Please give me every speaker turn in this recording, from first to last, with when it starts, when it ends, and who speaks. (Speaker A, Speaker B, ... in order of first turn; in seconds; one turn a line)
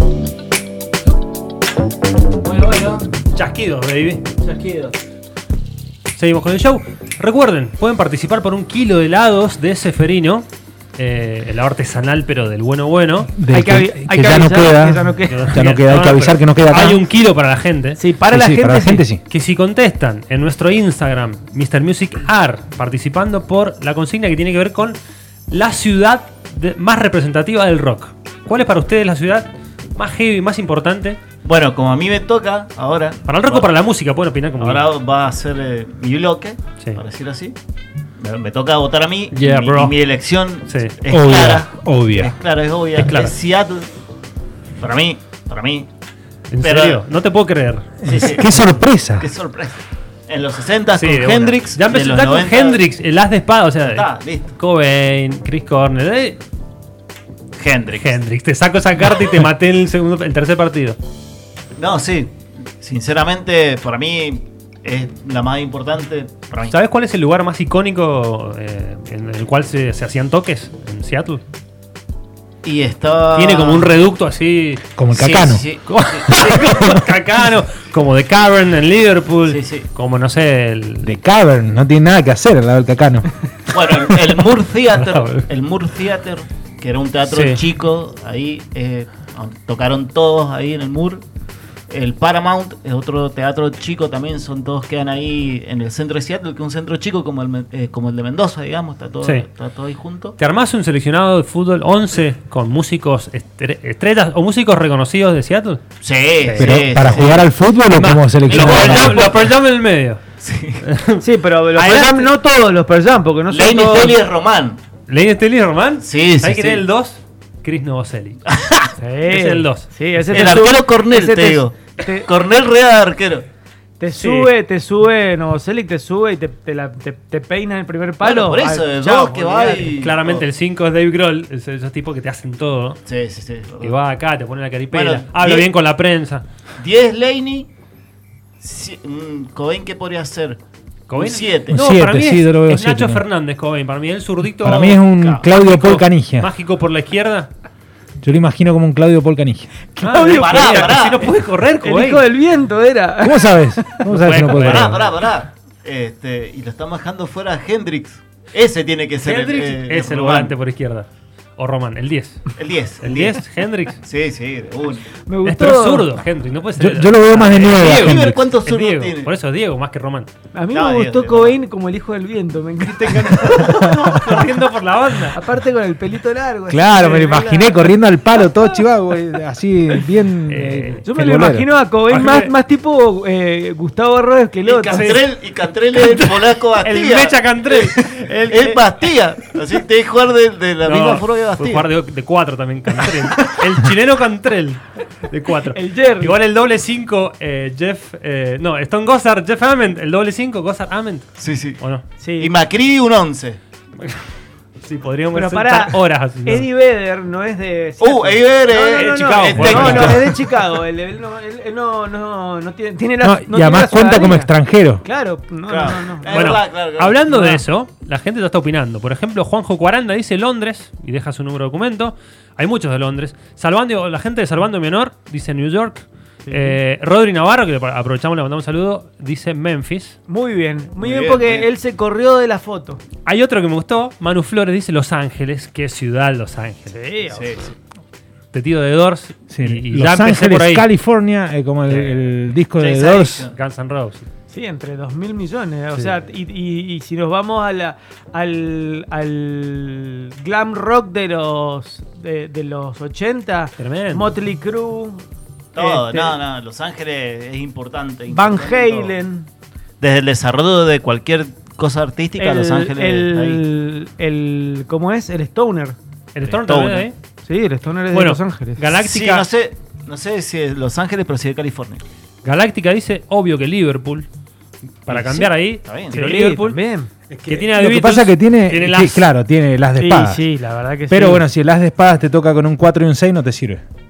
Speaker A: 2.4-3.0
Speaker B: 3.2-4.3
Speaker A: 4.4-4.9
Speaker B: 6.1-13.3
Speaker C: 13.3-17.0
Speaker D: 13.5-15.6
Speaker B: 15.3-18.0
Speaker D: 18.0-19.1
Speaker C: 18.3-19.2
Speaker B: 19.3-25.0
Speaker B: 25.5-31.2
Speaker A: 31.4-33.7
Speaker B: 33.2-34.9
Speaker A: 34.6-37.6
Speaker A: 38.2-43.9
Speaker B: 39.3-40.9
Speaker C: 41.1-42.3
Speaker B: 42.9-43.3
Speaker A: 44.8-45.9
Speaker B: 46.5-47.9
Speaker A: 46.6-47.0
Speaker C: 48.0-49.3
Speaker A: 48.0-48.7
Speaker A: 49.2-49.8
Speaker A: 50.3-52.8
Speaker B: 50.9-56.4
Speaker A: 53.8-54.5
Speaker A: 57.5-58.2
Speaker B: 57.9-61.0
Speaker A: 61.8-66.7
Speaker B: 66.7-71.4
Speaker A: 72.6-74.0
Speaker B: 73.3-74.9
Speaker C: 74.9-75.7
Speaker A: 75.1-76.8
Speaker B: 75.8-81.1
Speaker C: 76.4-77.0
Speaker A: 79.5-79.9
Speaker C: 81.0-83.3
Speaker A: 83.7-91.2
Speaker B: 84.9-85.5
Speaker B: 87.3-87.6
Speaker A: 91.9-100.3
Speaker B: 99.2-99.5
Speaker B: 100.4-105.8
Speaker A: 106.0-107.5
Speaker B: 106.4-106.9
Speaker C: 106.6-109.3
Speaker B: 107.9-110.2
Speaker A: 108.5-109.5
Speaker A: 110.4-110.8
Speaker B: 110.8-111.2
Speaker D: 111.2-114.2
Speaker A: 111.8-112.3
Speaker A: 113.5-114.8
Speaker B: 115.1-118.4
Speaker A: 116.0-116.8
Speaker A: 118.5-118.9
Speaker D: 119.0-122.3
Speaker B: 119.3-120.5
Speaker A: 120.3-123.5
Speaker D: 124.0-129.9
Speaker B: 124.2-124.5
Speaker A: 128.2-130.4
Speaker B: 129.9-133.0
Speaker A: 133.1-134.0
Speaker B: 133.8-136.4
Speaker A: 134.9-135.7
Speaker A: 136.8-137.7
Speaker A: 138.6-140.6
Speaker B: 141.1-147.5
Speaker A: 141.2-141.8
Speaker C: 141.7-143.2
Speaker C: 144.6-146.5
Speaker A: 144.6-145.5
Speaker C: 148.2-149.7
Speaker D: 149.9-151.0
Speaker B: 150.0-152.2
Speaker A: 150.4-151.3
Speaker D: 151.8-154.0
Speaker C: 153.2-155.0
Speaker B: 154.1-155.0
Speaker A: 154.5-160.5
Speaker B: 159.2-164.0
Speaker A: 162.6-163.4
Speaker A: 164.0-165.1
Speaker D: 165.2-166.1
Speaker B: 165.4-170.3
Speaker C: 166.8-168.4
Speaker A: 167.8-169.3
Speaker D: 170.5-173.9
Speaker A: 170.7-171.6
Speaker A: 172.8-174.4
Speaker C: 173.7-173.9
Speaker B: 173.9-175.4
Speaker D: 175.3-177.9
Speaker C: 176.7-181.7
Speaker B: 180.5-181.0
Speaker D: 181.0-185.2
Speaker B: 182.1-182.5
Speaker A: 184.6-191.8
Speaker B: 184.9-185.3
Speaker B: 185.9-188.7
Speaker B: 190.8-202.1
Speaker D: 195.7-196.3
Speaker A: 201.4-201.8
Speaker D: 202.2-202.5
Speaker A: 202.4-203.6
Speaker B: 204.0-204.3
Speaker B: 204.8-206.7
Speaker D: 205.3-214.5
Speaker A: 208.0-210.4
Speaker B: 208.9-210.3
Speaker C: 209.7-210.2
Speaker C: 213.2-215.0
Speaker D: 215.0-216.6
Speaker A: 215.7-217.2
Speaker B: 216.3-230.2
Speaker D: 217.3-217.6
Speaker D: 226.4-226.8
Speaker D: 230.3-233.0
Speaker A: 231.0-231.7
Speaker B: 233.2-237.0
Speaker D: 236.9-237.6
Speaker A: 237.3-237.7
Speaker B: 238.5-240.8
Speaker C: 239.5-243.5
Speaker B: 241.9-242.2
Speaker A: 242.8-243.6
Speaker B: 243.5-244.3
Speaker D: 244.5-255.2
Speaker B: 253.8-254.3
Speaker A: 255.7-259.2
Speaker D: 255.8-256.4
Speaker D: 258.3-259.5
Speaker A: 260.0-263.6
Speaker D: 262.4-266.0
Speaker B: 266.3-267.1
Speaker A: 266.4-267.1
Speaker D: 267.4-268.8
Speaker B: 268.1-269.5
Speaker A: 269.0-272.0
Speaker B: 272.4-274.3
Speaker B: 275.1-276.8
Speaker A: 275.8-276.2
Speaker D: 276.1-277.1
Speaker C: 277.3-280.4
Speaker B: 277.5-279.3
Speaker D: 279.9-281.4
Speaker C: 281.1-283.8